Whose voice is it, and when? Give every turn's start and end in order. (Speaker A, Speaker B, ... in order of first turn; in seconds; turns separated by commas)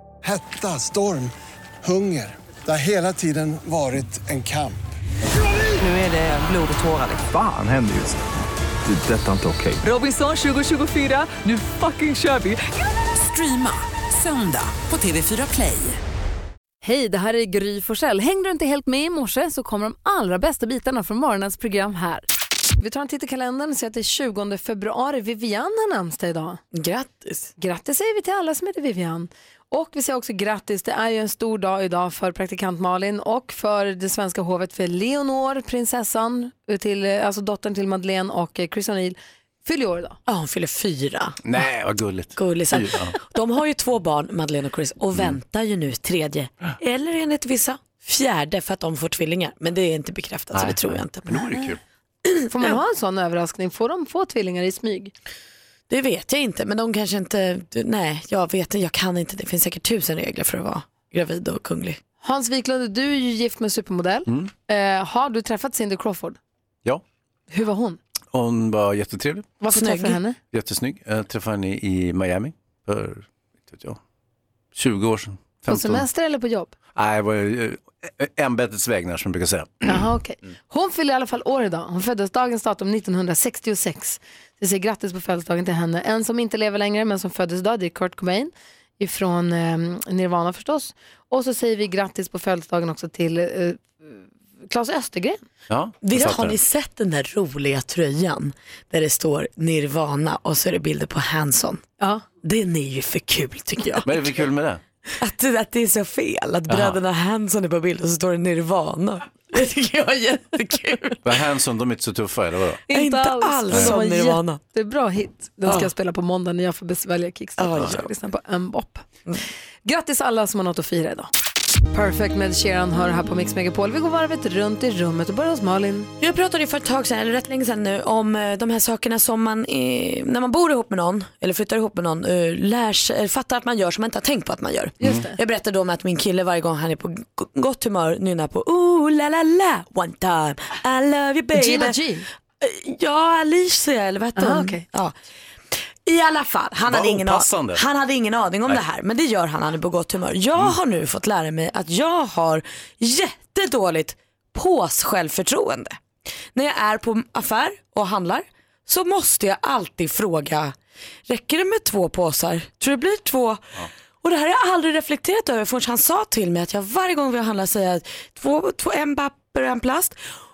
Speaker A: 0.2-4.8, Speaker B: 5.8-7.2, Speaker C: 5.8-6.3, Speaker C: 7.1-8.2, Speaker C: 8.8-9.8, Speaker B: 9.8-16.0, Speaker D: 16.8-22.3, Speaker D: 22.8-26.6, Speaker E: 26.7-27.5, Speaker D: 27.6-40.2, Speaker E: 40.3-41.4, Speaker F: 41.4-43.1, Speaker E: 42.4-51.4, Speaker F: 50.5-51.8, Speaker E: 52.3-52.8, Speaker D: 52.5-55.1, Speaker E: 55.9-62.0, Speaker D: 62.2-66.4, Speaker D: 67.5-68.0, Speaker F: 68.3-69.5, Speaker D: 69.6-70.4, Speaker E: 69.7-70.2, Speaker F: 70.5-74.0, Speaker F: 74.8-76.1, Speaker D: 75.7-76.7, Speaker F: 77.0-80.1, Speaker D: 79.8-95.4, Speaker F: 95.7-96.6, Speaker E: 96.0-101.8, Speaker E: 102.4-104.2, Speaker F: 104.0-104.8, Speaker E: 105.2-111.2, Speaker F: 106.7-107.0, Speaker F: 111.2-112.8, Speaker D: 112.9-119.1, Speaker E: 112.9-114.6, Speaker F: 113.7-114.0, Speaker E: 117.6-118.1, Speaker D: 119.8-121.3, Speaker D: 121.9-126.1, Speaker E: 126.2-142.0, Speaker D: 135.0-135.4, Speaker D: 141.6-142.3, Speaker E: 142.6-145.2, Speaker D: 144.4-144.8, Speaker E: 145.7-156.0, Speaker F: 146.9-147.8, Speaker E: 156.6-160.8, Speaker E: 161.3-163.7, Speaker E: 164.2-170.2